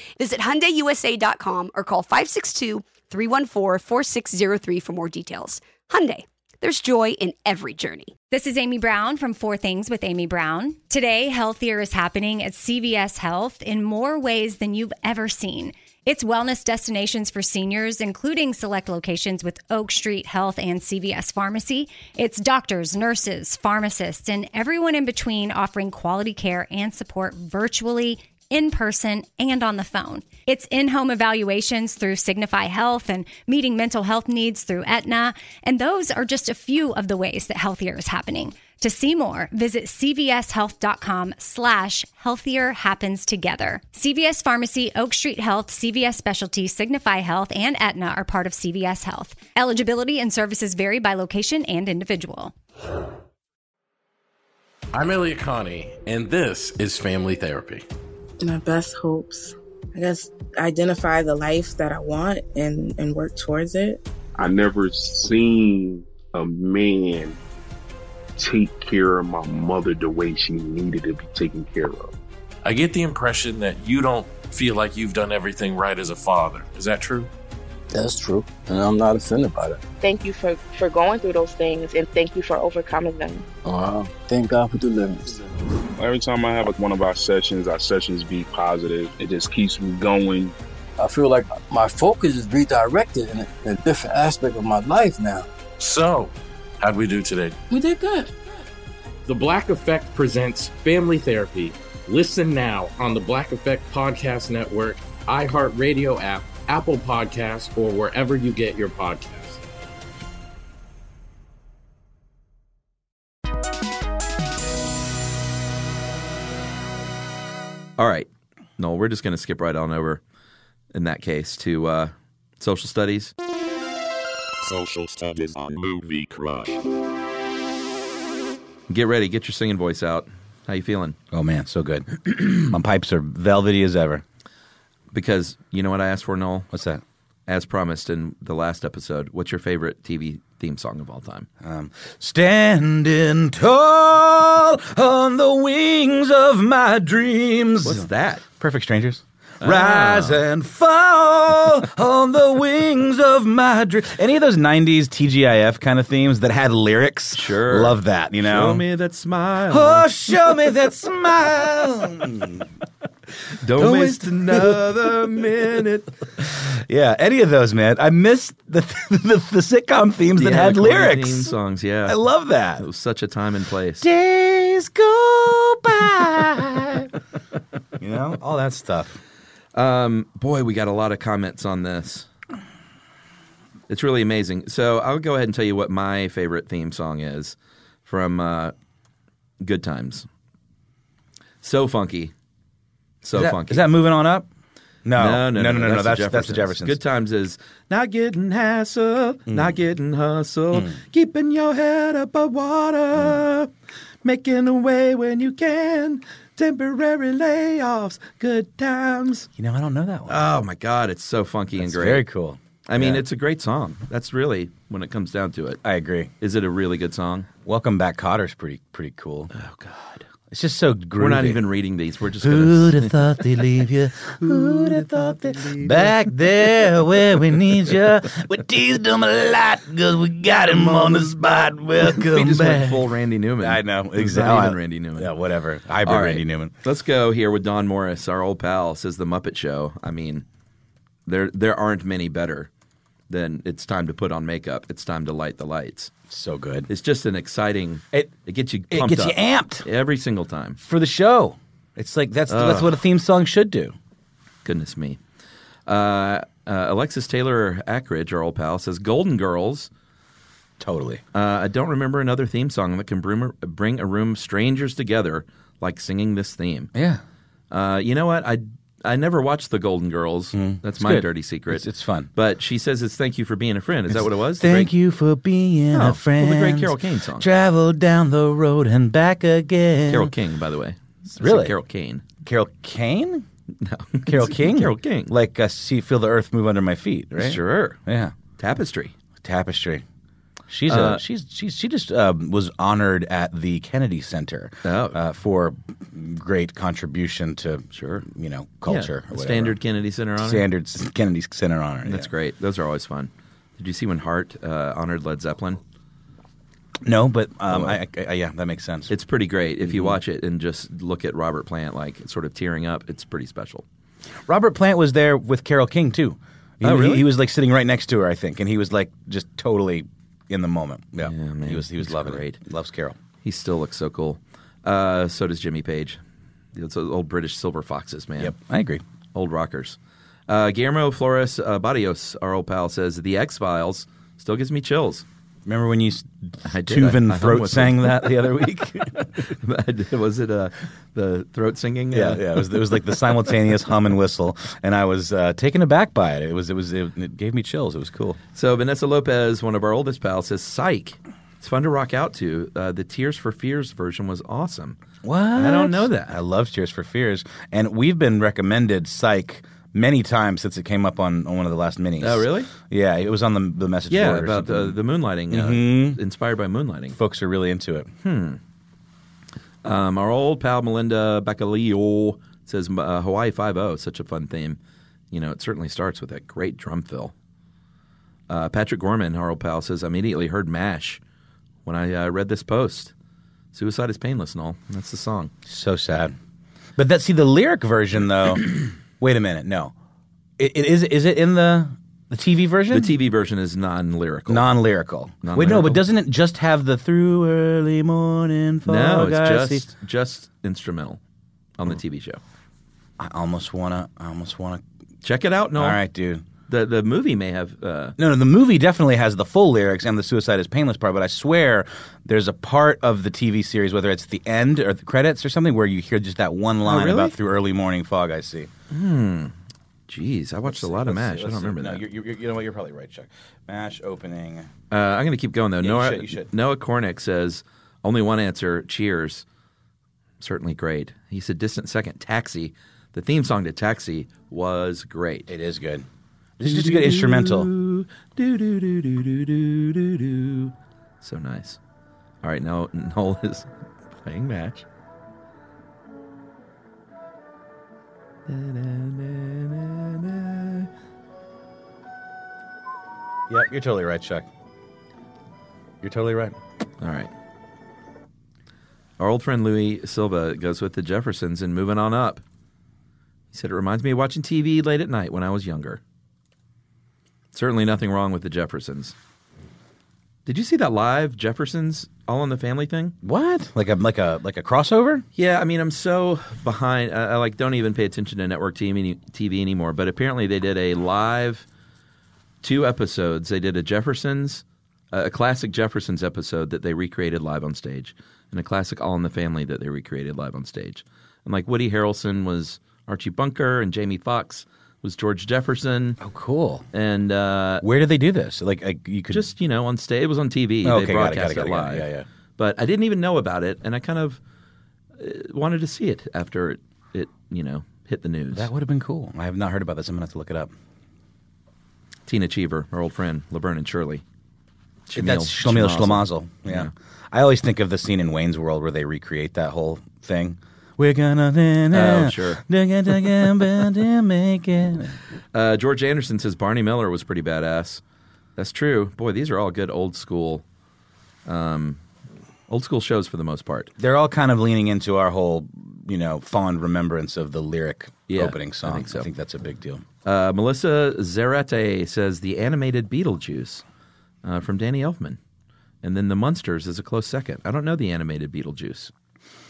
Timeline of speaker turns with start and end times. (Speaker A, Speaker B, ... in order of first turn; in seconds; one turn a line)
Speaker A: 0.2-8.1
Speaker B: 8.3-52.5
Speaker C: 54.9-57.8
Speaker D: 58.4-64.0
Speaker E: 64.4-67.4
Speaker E: 68.4-72.1
Speaker C: 72.6-77.3
Speaker F: 77.9-79.8
Speaker D: 80.0-83.5
Speaker F: 83.6-85.5
Speaker E: 86.0-90.5
Speaker F: 91.0-95.5
Speaker C: 95.8-97.6
Speaker D: 97.7-98.3
Speaker C: 99.2-109.6
Speaker G: 118.0-120.2
Speaker G: 120.9-123.3
Speaker H: 124.6-126.8
Speaker G: 128.9-131.2
Speaker I: 131.3-134.2
Speaker G: 135.1-136.7
Speaker I: 136.7-137.0
Speaker G: 137.5-141.5
Speaker I: 141.6-148.1
Speaker G: 147.8-148.4
Speaker I: 148.6-158.8
Speaker G: 149.6-150.4
Speaker G: 157.3-160.1
Speaker I: 159.7-162.7
Speaker G: 163.6-166.1
Speaker I: 163.8-164.8
Speaker I: 166.4-171.5
Speaker G: 170.4-172.2
Speaker I: 172.0-172.8
Speaker G: 172.8-174.1
Speaker I: 174.0-177.1
Speaker I: 178.0-179.2
Speaker G: 179.7-182.3
Speaker G: 183.9-187.5
Speaker G: 188.1-188.7
Speaker G: 189.6-190.2
Speaker G: 191.6-192.3
Speaker G: 193.2-193.9
Speaker I: 193.3-194.5
Speaker I: 195.0-197.0
Speaker G: 195.2-203.7
Speaker I: 199.5-199.8
Speaker G: 204.2-209.5
Speaker I: 209.6-210.4
Speaker G: 210.3-212.2
Speaker I: 211.8-213.2
Speaker G: 212.9-215.8
Speaker I: 215.8-216.3
Speaker G: 216.4-217.5
Speaker I: 217.6-219.5
Speaker G: 219.5-220.2
Speaker I: 220.5-221.6
Speaker G: 221.2-223.2
Speaker I: 222.4-233.1
Speaker G: 224.4-226.2
Speaker G: 230.7-231.4
Speaker G: 232.0-235.3
Speaker I: 233.6-236.7
Speaker G: 236.0-240.4
Speaker G: 241.2-242.7
Speaker G: 243.3-246.1
Speaker I: 246.3-246.9
Speaker G: 246.9-250.8
Speaker I: 248.9-249.8
Speaker I: 250.8-253.9
Speaker G: 252.5-252.9
Speaker G: 254.6-255.2
Speaker G: 255.9-259.9
Speaker I: 260.8-261.2
Speaker G: 261.3-266.9
Speaker I: 266.9-267.2
Speaker G: 267.7-274.9
Speaker I: 270.5-272.3
Speaker I: 274.1-280.3
Speaker G: 275.9-277.5
Speaker G: 280.1-282.2
Speaker I: 281.3-281.7
Speaker I: 282.4-283.4
Speaker G: 283.8-285.3
Speaker I: 284.2-288.3
Speaker G: 287.4-288.0
Speaker G: 288.6-289.1
Speaker I: 289.4-290.0
Speaker I: 290.7-299.8
Speaker G: 290.9-291.2
Speaker G: 294.8-295.2
Speaker G: 297.9-298.2
Speaker G: 298.9-300.6
Speaker I: 300.4-302.3
Speaker G: 302.0-305.8
Speaker I: 307.0-309.1
Speaker G: 307.7-308.0
Speaker G: 309.1-313.8
Speaker I: 309.8-310.2
Speaker I: 314.4-323.2
Speaker G: 316.8-317.3
Speaker G: 321.2-322.6
Speaker G: 323.4-326.2
Speaker G: 326.7-328.5
Speaker I: 328.4-329.0
Speaker G: 329.3-330.0
Speaker G: 330.5-335.2
Speaker I: 335.6-339.1
Speaker G: 336.6-343.3
Speaker I: 342.1-348.4
Speaker G: 348.5-355.0
Speaker I: 355.2-365.0
Speaker G: 355.6-356.4
Speaker G: 362.2-362.7
Speaker G: 364.1-367.2
Speaker I: 365.5-366.2
Speaker I: 367.1-368.1
Speaker G: 368.2-368.6
Speaker G: 369.8-374.8
Speaker G: 375.3-377.3
Speaker G: 378.5-381.2
Speaker G: 381.8-383.1
Speaker G: 383.7-385.5
Speaker I: 385.6-386.4
Speaker I: 386.9-389.9
Speaker I: 390.6-393.1
Speaker G: 392.9-394.7
Speaker I: 394.5-399.8
Speaker G: 395.4-396.0
Speaker G: 398.9-401.2
Speaker G: 401.8-402.4
Speaker I: 403.2-404.8
Speaker G: 405.2-406.0
Speaker I: 405.8-406.4
Speaker G: 406.7-408.1
Speaker I: 408.2-418.7
Speaker G: 416.8-417.3
Speaker G: 418.9-419.5
Speaker G: 420.1-422.0
Speaker I: 420.7-424.7
Speaker G: 424.9-429.4
Speaker I: 425.8-426.5
Speaker G: 430.4-435.5
Speaker I: 435.5-436.1
Speaker I: 436.6-437.7
Speaker G: 436.6-441.8
Speaker G: 442.4-444.9
Speaker G: 448.5-450.9
Speaker I: 453.5-454.5
Speaker I: 456.0-456.6
Speaker G: 457.0-457.3
Speaker G: 459.2-462.4
Speaker G: 463.5-466.0
Speaker G: 467.5-469.1
Speaker G: 470.4-473.1
Speaker I: 473.2-475.2
Speaker G: 475.4-481.6
Speaker G: 482.6-496.2
Speaker I: 496.2-496.8
Speaker G: 496.9-497.8
Speaker I: 497.8-499.5
Speaker G: 499.3-504.4
Speaker I: 500.8-502.2
Speaker G: 505.2-508.7
Speaker I: 508.5-510.7
Speaker G: 512.3-514.2
Speaker G: 515.1-516.9
Speaker I: 515.1-525.2
Speaker G: 521.9-522.6
Speaker G: 525.5-528.0
Speaker G: 528.6-530.6
Speaker G: 531.5-532.0
Speaker G: 532.7-533.9
Speaker I: 534.0-540.0
Speaker G: 538.3-539.3
Speaker G: 540.2-543.8
Speaker G: 544.4-545.4
Speaker G: 546.0-549.1